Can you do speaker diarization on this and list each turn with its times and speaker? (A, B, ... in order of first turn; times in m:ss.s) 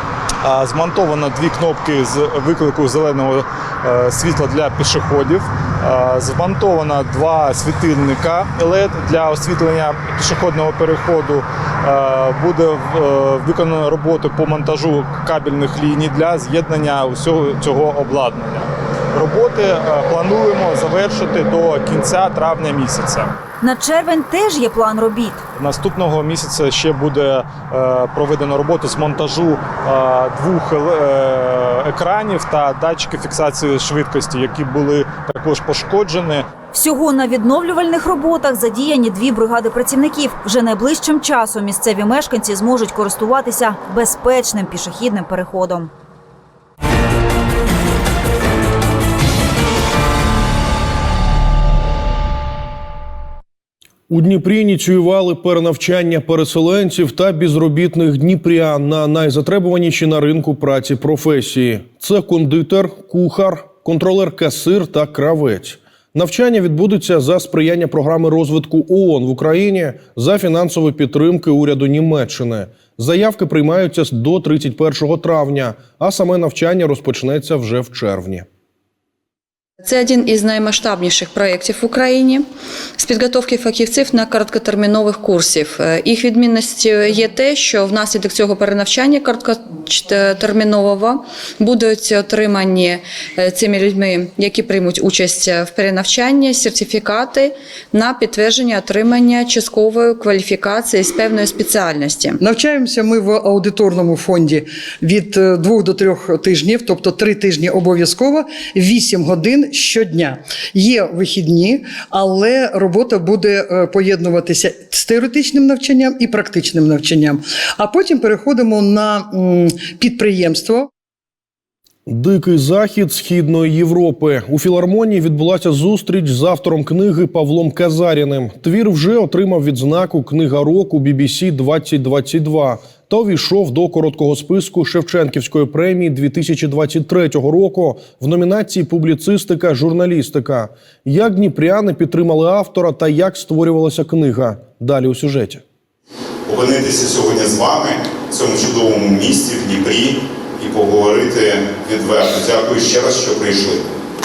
0:00.4-0:23.3 A
0:23.6-0:25.4 B
0:25.6-0:36.5 A
0:36.7-0:45.9 B
0:54.1-1:18.5 C
1:19.8-1:22.5 D
1:23.0-1:42.4 D
1:42.4-2:00.9 E
2:02.1-2:25.6 C
2:26.5-2:33.9 F